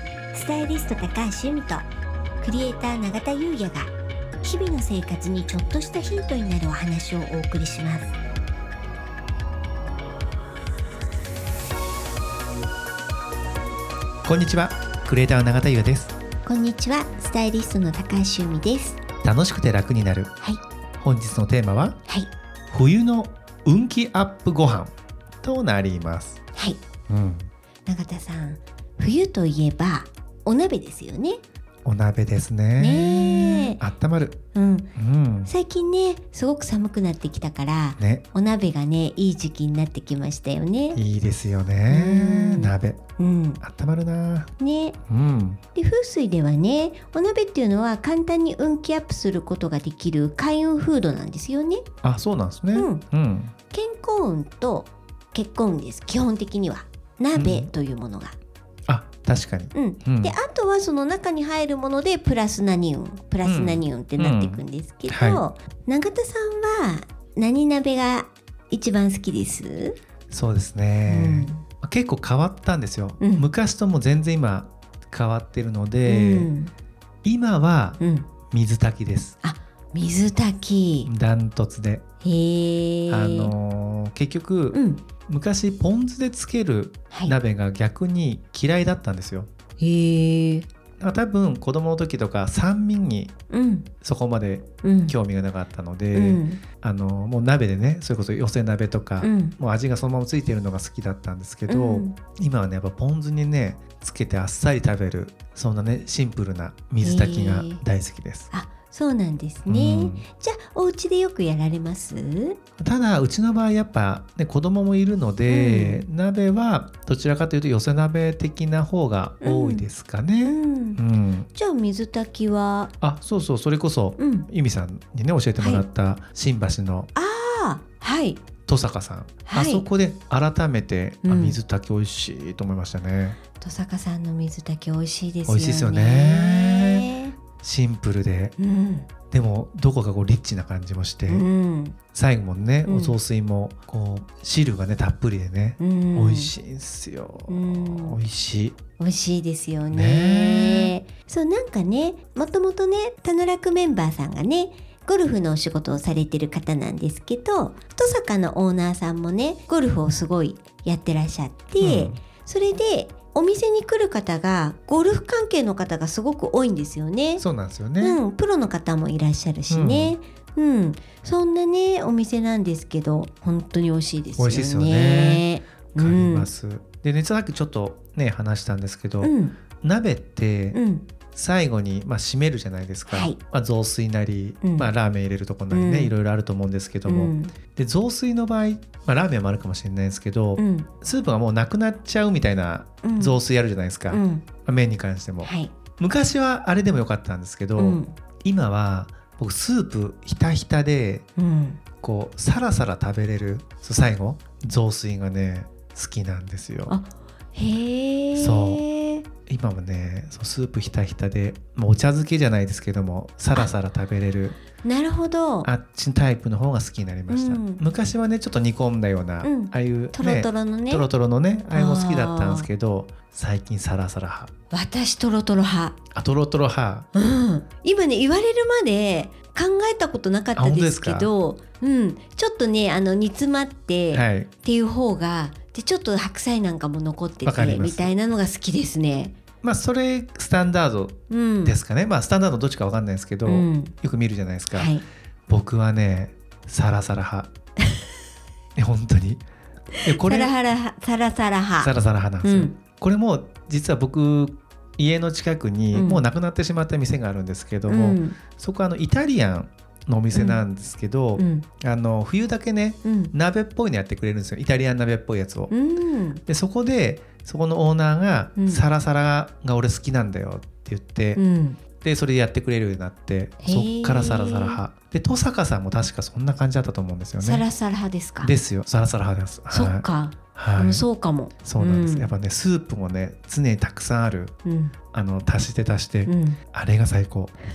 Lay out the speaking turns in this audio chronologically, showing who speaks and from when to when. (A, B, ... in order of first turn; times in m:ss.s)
0:00.3-0:01.9 A
0:02.4-0:08.1 A
0:14.2-0:16.2 B
0:16.4-0:19.0 A
0:19.2-0:20.3 B
0:21.0-0:22.0 B
0:22.7-0:26.4 B
0:27.1-0:27.5 B
0:27.9-0:31.4 A
0:31.8-0:34.4 B
0:32.8-0:33.8 A
0:34.5-0:34.9 A
0:35.0-0:35.5 B
0:35.5-0:41.0 A
0:38.0-0:38.2 B
0:41.0-0:43.0 B
0:41.9-0:43.6 A
0:43.6-0:44.5 B
0:44.6-0:45.0 A
0:45.1-0:45.6 B
0:45.8-0:51.8 A
0:52.0-0:53.5 B
0:52.7-0:53.0 A
0:53.7-0:58.4 A
0:57.3-0:57.7 B
0:58.9-1:00.4 B
0:59.7-1:10.0 A
1:03.4-1:05.4 B
1:10.3-1:16.5 B
1:11.1-1:11.6 A
1:13.2-1:13.5 A
1:16.0-1:16.7 A
1:17.2-1:18.0 B
1:18.0-1:18.3 A
1:18.5-1:19.4 B
1:19.4-1:21.1 A
1:21.1-1:22.0 B
1:22.2-1:23.5 A
1:23.1-1:29.5 B
1:24.7-1:25.0 A
1:27.1-1:27.4 A
1:29.8-1:30.7 A
1:31.0-1:33.3 B
1:33.5-1:33.9 A
1:34.0-1:48.5 B
1:34.8-1:35.2 A
1:36.1-1:36.6 A
1:39.2-1:39.6 A
1:41.7-1:42.2 A
1:47.0-1:47.8 A
1:48.5-1:52.6 A
1:49.7-1:50.2 B
1:52.8-2:01.5 B
1:55.5-1:56.0 A
1:59.4-1:59.9 A
2:00.4-2:01.0 A
2:01.6-2:02.9 A
2:03.0-2:07.1 B
2:04.2-2:04.5 A
2:05.6-2:05.8 A
2:07.2-2:08.4 A
2:08.7-2:13.4 B
2:09.5-2:09.8 A
2:11.2-2:11.6 A
2:13.6-2:17.4 A
2:15.5-2:17.1 B
2:17.6-2:18.6 B
2:18.6-2:19.1 A
2:19.3-2:21.5 B
2:21.3-2:22.0 A
2:22.1-2:28.8 B
2:22.9-2:23.2 A
2:25.8-2:26.5 A
2:27.5-2:28.2 A
2:29.0-2:47.4 A
2:29.9-2:30.9 B
2:41.8-2:42.2 B
2:47.4-2:48.2 B
2:48.0-2:56.5 A
2:49.7-2:50.2 B
2:54.4-3:00.8 B
2:59.2-2:59.6 A
3:00.7-3:01.1 A
3:01.3-3:21.2 B
3:03.1-3:03.4 A
3:04.6-3:04.9 A
3:05.7-3:06.1 A
3:07.1-3:07.6 A
3:10.6-3:10.9 A
3:13.0-3:13.4 A
3:14.1-3:14.4 A
3:15.4-3:15.7 A
3:17.8-3:18.1 A
3:21.4-3:21.8 A
3:22.0-3:27.0 B
3:26.9-3:29.2 A
3:28.4-3:28.8 B
3:29.5-3:34.6 B
3:34.8-3:35.7 A
3:35.6-3:44.5 B
3:37.3-3:37.8 A
3:39.4-3:41.1 A
3:41.7-3:42.7 A
3:44.7-3:46.0 A
3:46.1-3:47.1 B
3:47.1-3:59.3 A
3:50.6-3:51.3 B
3:54.1-3:54.5 B
3:57.4-3:58.1 B
3:59.6-4:05.0 B
4:01.3-4:01.8 A
4:03.4-4:03.9 A
4:04.7-4:05.0 A
4:05.5-4:07.5 B
4:08.8-4:09.4 B
4:10.0-4:12.7 A
4:10.0-4:10.5 B
4:11.8-4:25.7 B
4:15.9-4:16.2 A
4:17.9-4:18.4 A
4:20.3-4:20.6 A
4:21.4-4:21.7 A
4:23.0-4:23.3 A
4:25.7-4:26.4 A
4:26.5-4:31.4 B
4:28.6-4:28.8 A
4:31.4-4:31.8 A
4:32.0-4:37.6 B
4:33.6-4:34.8 A
4:37.4-4:38.5 A
4:38.4-4:41.0 B
4:39.7-4:42.3 A
4:41.6-4:44.6 B
4:44.6-4:44.9 A
4:45.1-4:47.5 B
4:46.3-4:46.6 A